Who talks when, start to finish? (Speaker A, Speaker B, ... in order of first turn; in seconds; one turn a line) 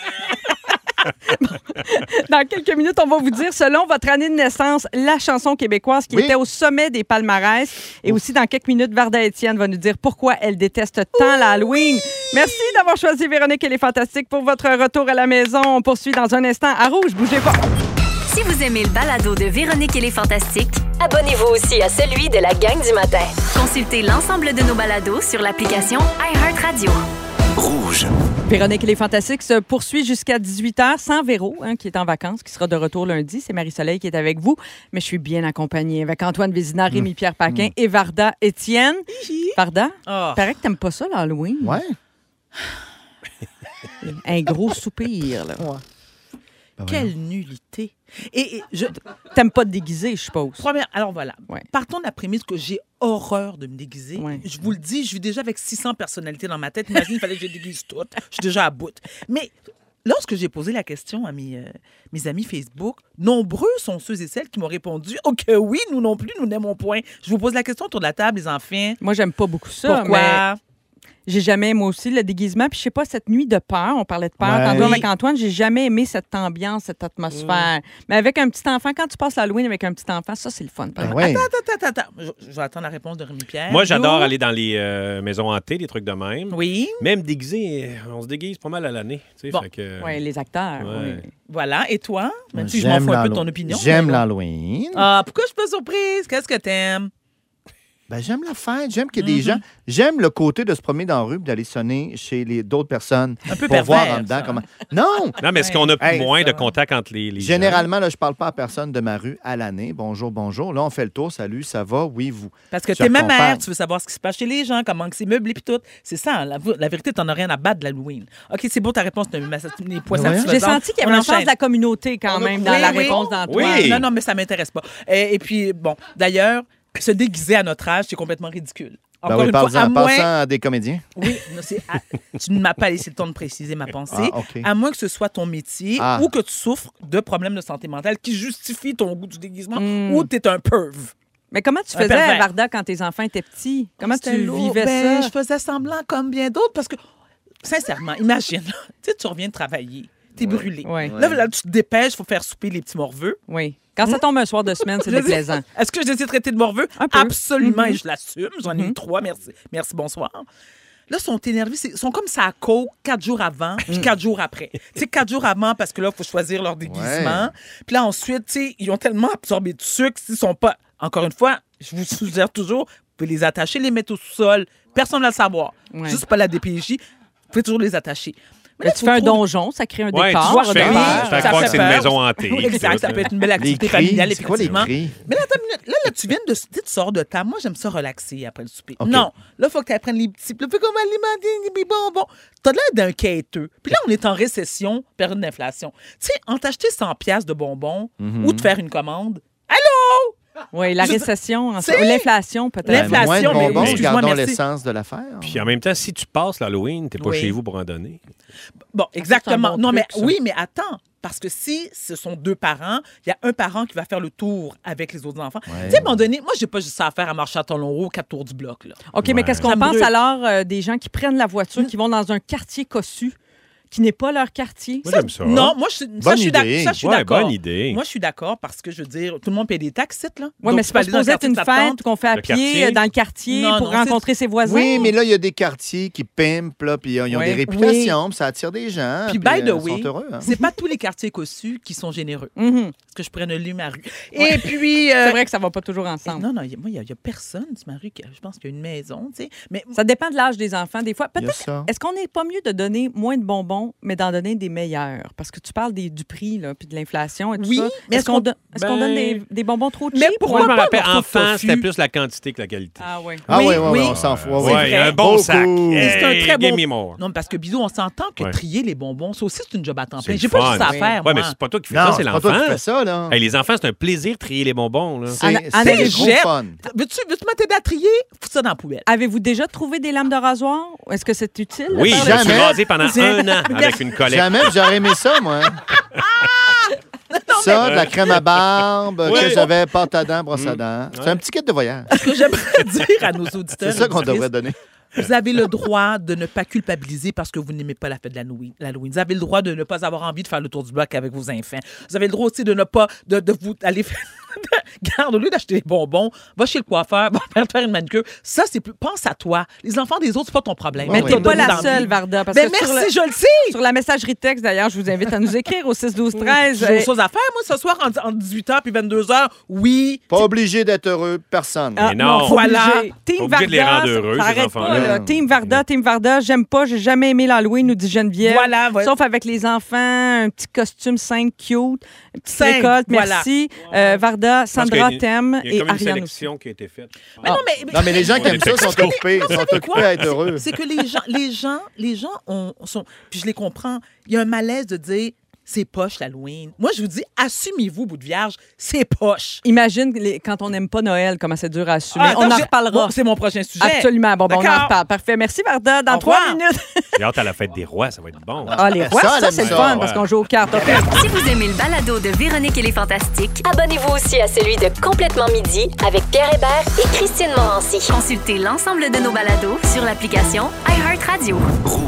Speaker A: 1.3-17.6
Speaker B: 6.1-6.4
Speaker C: 18.3-27.0
Speaker A: 28.4-41.8
Speaker B: 36.9-37.7
Speaker D: 39.1-40.5
Speaker B: 41.6-42.0
Speaker A: 44.0-45.7
Speaker B: 46.8-47.1
Speaker D: 46.9-49.0
Speaker A: 49.3-50.6
Speaker D: 50.6-69.0
Speaker A: 54.1-54.4
Speaker A: 69.0-70.4
Speaker D: 69.8-70.6
Speaker A: 71.3-81.2
Speaker B: 74.4-75.0
Speaker D: 74.7-75.1
Speaker E: 77.3-77.7
Speaker B: 81.0-81.5
Speaker D: 81.0-84.3
Speaker E: 83.7-90.2
Speaker D: 86.5-87.0
Speaker A: 90.0-91.3
Speaker E: 90.8-91.2
Speaker D: 91.5-94.2
Speaker B: 92.5-95.1
Speaker D: 94.9-97.1
Speaker B: 98.1-105.4
Speaker D: 99.2-99.6
Speaker D: 103.5-104.6
Speaker E: 105.4-107.8
Speaker D: 105.5-106.7
Speaker B: 106.0-106.3
Speaker B: 107.4-113.6
Speaker D: 112.7-121.5
Speaker B: 120.1-120.5
Speaker A: 120.2-124.0
Speaker D: 122.3-130.3
Speaker B: 122.6-123.1
Speaker E: 123.5-124.0
Speaker B: 129.2-131.1
Speaker D: 131.2-141.1
Speaker B: 134.1-134.7
Speaker B: 136.0-136.3
Speaker A: 139.8-140.3
Speaker A: 141.5-145.3
Speaker D: 141.9-142.5
Speaker D: 144.0-147.0
Speaker D: 147.6-153.4
Speaker B: 150.4-151.4
Speaker A: 150.8-151.1
Speaker A: 153.5-155.6
Speaker D: 154.8-160.4
Speaker A: 157.0-158.0
Speaker A: 158.7-158.9
Speaker D: 161.1-179.4
Speaker B: 166.8-167.5
Speaker A: 175.9-176.2
Speaker A: 178.8-181.9
Speaker E: 180.1-183.3
Speaker D: 180.4-200.3
Speaker B: 180.8-181.8
Speaker B: 183.6-185.2
Speaker E: 184.6-184.9
Speaker B: 189.0-189.3
Speaker B: 198.2-198.7
Speaker A: 200.7-203.9
Speaker D: 201.0-202.3
Speaker D: 202.8-204.6
Speaker B: 202.9-205.6
Speaker E: 203.8-204.1
Speaker E: 205.4-208.2
Speaker D: 207.2-207.6
Speaker D: 208.9-219.0
Speaker A: 209.2-210.3
Speaker B: 215.7-216.1
Speaker A: 219.1-223.3
Speaker E: 219.2-219.7
Speaker D: 219.6-220.1
Speaker A: 223.9-225.3
Speaker E: 225.0-225.7
Speaker D: 225.4-232.0
Speaker B: 226.2-226.9
Speaker E: 227.0-228.0
Speaker A: 230.6-235.1
Speaker E: 232.3-233.0
Speaker D: 233.5-234.2
Speaker B: 234.6-240.6
Speaker D: 234.8-235.1
Speaker A: 237.3-237.6
Speaker D: 237.7-238.2
Speaker D: 239.2-242.5
Speaker A: 242.6-242.9
Speaker D: 243.1-245.4
Speaker A: 244.3-246.4
Speaker D: 246.2-249.9
Speaker A: 249.9-260.8
Speaker B: 251.4-251.9
Speaker D: 257.6-258.5
Speaker E: 258.8-259.4
Speaker D: 260.1-261.9
Speaker E: 260.5-267.2
Speaker A: 263.0-263.4
Speaker B: 263.5-266.2
Speaker D: 263.5-265.1
Speaker D: 265.9-271.5
Speaker E: 270.2-275.4
Speaker A: 270.8-271.1
Speaker B: 271.9-273.4
Speaker B: 275.3-276.8
Speaker A: 275.4-276.3
Speaker D: 275.8-279.1
Speaker A: 279.1-282.6
Speaker E: 281.9-284.9
Speaker B: 282.1-282.8
Speaker D: 283.0-284.1
Speaker B: 284.2-285.8
Speaker D: 286.4-288.4
Speaker B: 287.5-292.1
Speaker E: 287.8-289.7
Speaker D: 289.3-289.6
Speaker E: 290.5-291.4
Speaker D: 292.1-294.5
Speaker B: 293.8-294.7
Speaker D: 295.1-313.8
Speaker B: 311.0-312.0
Speaker A: 311.1-313.1
Speaker A: 313.6-317.1
Speaker D: 316.4-320.3
Speaker B: 320.3-322.1
Speaker A: 321.9-336.5
Speaker E: 322.0-322.6
Speaker D: 322.4-323.1
Speaker E: 323.4-325.8
Speaker B: 324.8-325.4
Speaker D: 328.4-329.1
Speaker D: 332.5-334.0
Speaker E: 334.7-340.2
Speaker D: 337.4-349.6
Speaker B: 337.9-340.7
Speaker A: 349.6-353.1
Speaker D: 352.1-354.9
Speaker A: 353.8-357.1
Speaker D: 356.1-356.6
Speaker E: 357.1-358.8
Speaker B: 358.6-360.1
Speaker A: 358.8-361.1
Speaker E: 359.6-360.2
Speaker C: 361.0-371.7